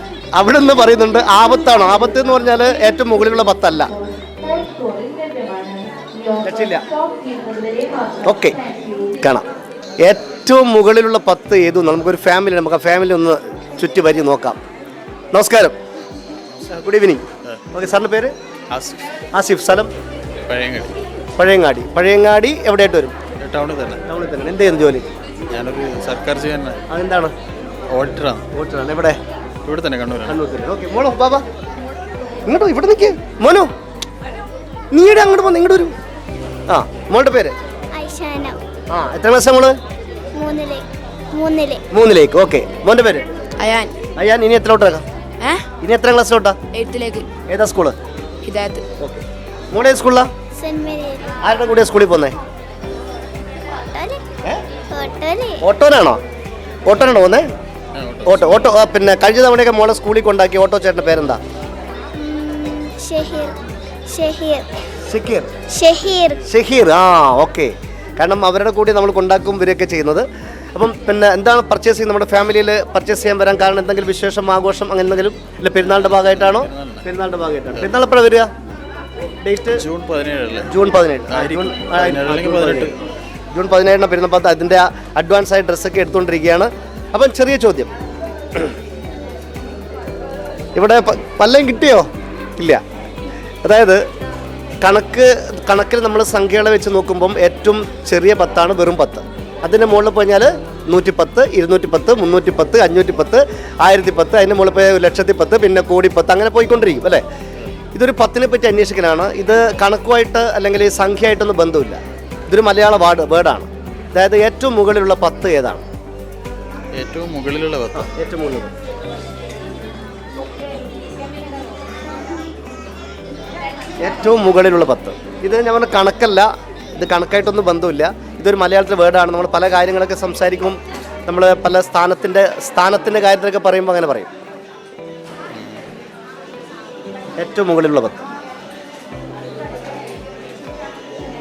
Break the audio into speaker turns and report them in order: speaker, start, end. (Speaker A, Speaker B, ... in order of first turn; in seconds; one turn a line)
Speaker A: 0.3-3.9
Speaker B: 4.3-9.1
Speaker A: 6.4-6.9
Speaker A: 8.2-8.6
Speaker A: 9.2-9.4
Speaker A: 10.0-14.6
Speaker A: 15.3-15.8
Speaker A: 16.6-18.3
Speaker C: 18.7-19.1
Speaker A: 19.3-19.9
Speaker C: 20.4-21.0
Speaker A: 21.4-23.1
Speaker C: 23.4-24.0
Speaker A: 24.1-25.1
Speaker C: 25.5-26.8
Speaker A: 26.9-27.3
Speaker C: 27.9-28.4
Speaker A: 28.5-29.2
Speaker C: 29.6-30.4
Speaker A: 30.2-31.4
Speaker A: 32.5-33.7
Speaker A: 34.9-35.9
Speaker A: 36.7-37.5
Speaker D: 37.9-38.6
Speaker A: 38.9-39.8
Speaker D: 40.3-41.8
Speaker A: 41.9-43.2
Speaker B: 43.6-43.9
Speaker A: 44.2-45.0
Speaker A: 45.8-46.6
Speaker B: 46.7-47.3
Speaker A: 47.5-48.0
Speaker B: 48.4-48.8
Speaker A: 49.0-50.3
Speaker D: 50.5-51.3
Speaker A: 51.4-52.4
Speaker D: 53.9-54.2
Speaker D: 54.9-55.6
Speaker A: 55.6-56.2
Speaker A: 56.9-57.5
Speaker C: 57.9-58.6
Speaker A: 58.2-61.4
Speaker D: 62.1-63.6
Speaker D: 64.1-64.7
Speaker A: 65.1-65.5
Speaker D: 65.7-66.4
Speaker A: 66.5-78.5
Speaker C: 75.9-77.0
Speaker A: 79.4-79.8
Speaker C: 79.7-80.7
Speaker A: 80.6-82.9
Speaker C: 81.3-83.0
Speaker A: 83.5-87.9
Speaker A: 90.7-92.0
Speaker A: 93.6-94.0
Speaker A: 94.8-107.2
Speaker A: 107.9-115.8
Speaker C: 117.0-118.1
Speaker A: 117.9-118.7
Speaker A: 124.0-134.3
Speaker C: 135.5-135.8
Speaker A: 137.4-138.2